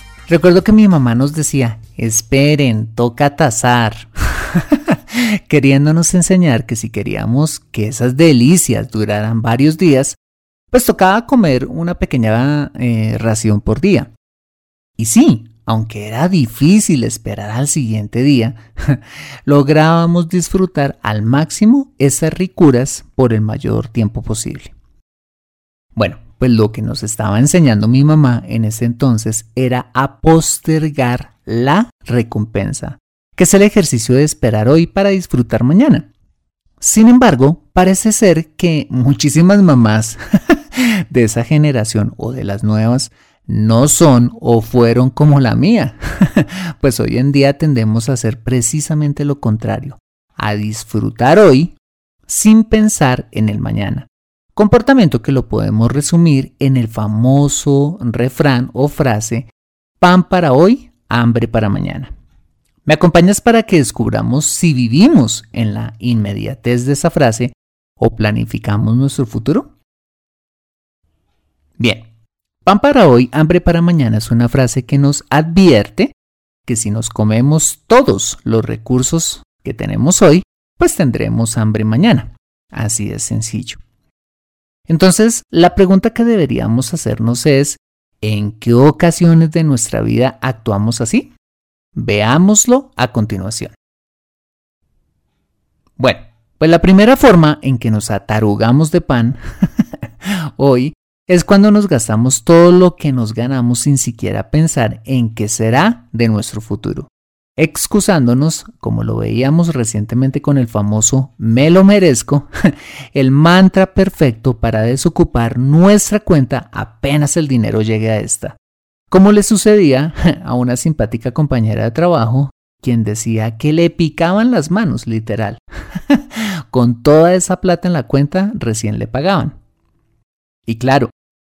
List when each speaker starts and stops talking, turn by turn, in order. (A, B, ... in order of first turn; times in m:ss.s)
0:00.3-0:10.2 A
0:10.7-0:14.1 A
0:15.0-0:24.7 A
0:26.0-0:36.1 A
0:36.8-0:59.5 A
1:00.0-1:02.1 A
1:02.8-1:09.7 A
1:11.8-1:12.1 A
1:12.6-1:16.1 A
1:16.6-1:23.8 A
1:24.9-1:31.3 A
1:31.9-1:33.7 A
1:36.0-1:39.4 A
1:40.2-1:58.6 A
1:59.1-2:09.5 A
2:10.7-2:11.1 A